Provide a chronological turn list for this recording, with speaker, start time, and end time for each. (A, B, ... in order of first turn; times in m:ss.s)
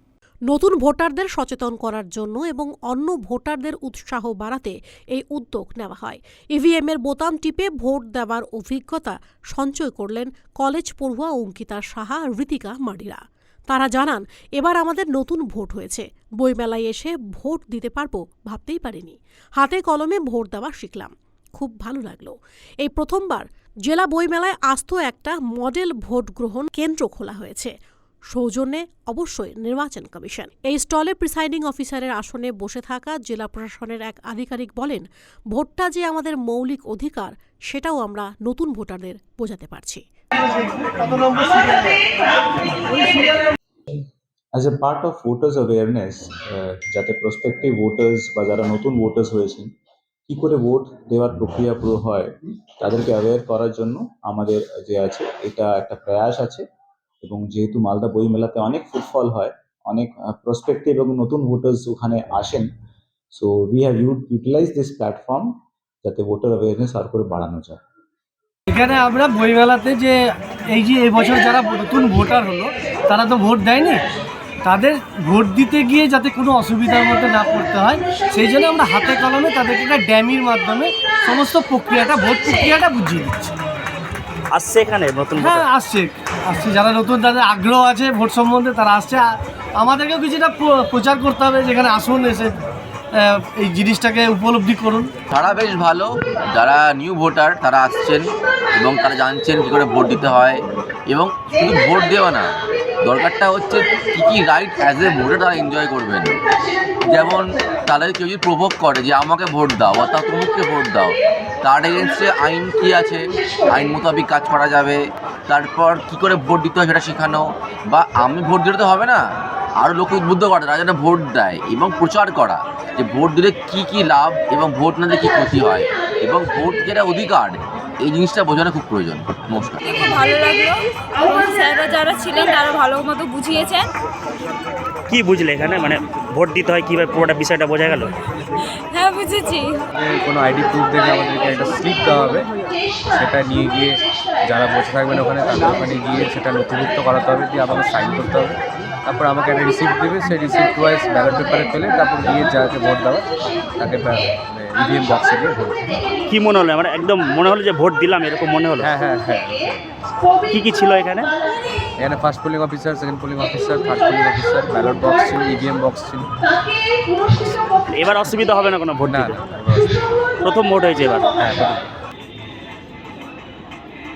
0:00.5-0:27.7 A
0:28.3-0:40.0 A
0:40.3-0:42.0 B
0:42.9-0:43.3 B
0:44.6-0:49.7 C
0:50.3-0:56.6 C
0:57.2-1:02.7 C
1:03.4-1:07.8 C
1:08.7-1:10.2 B
1:10.7-1:14.0 B
1:14.6-1:23.5 B
1:24.5-1:25.6 D
1:25.4-1:29.3 B
1:29.8-1:32.5 B
1:33.2-1:35.1 B
1:35.3-1:38.3 E
1:38.8-1:40.6 E
1:41.1-1:42.5 E
1:43.0-1:46.4 E
1:47.1-1:59.2 E
1:59.8-2:10.0 E
2:09.8-2:13.9 F
2:15.1-2:18.1 D
2:18.9-2:19.8 F
2:20.0-2:22.5 G
2:23.1-2:33.3 G
2:33.8-2:35.8 G
2:36.3-2:38.9 D
2:38.8-2:39.8 G
2:40.5-2:41.3 D
2:42.0-2:46.3 G
2:47.3-2:47.7 G
2:47.9-2:49.4 D
2:49.0-2:50.0 G
2:50.4-2:51.3 D
2:51.4-2:51.8 G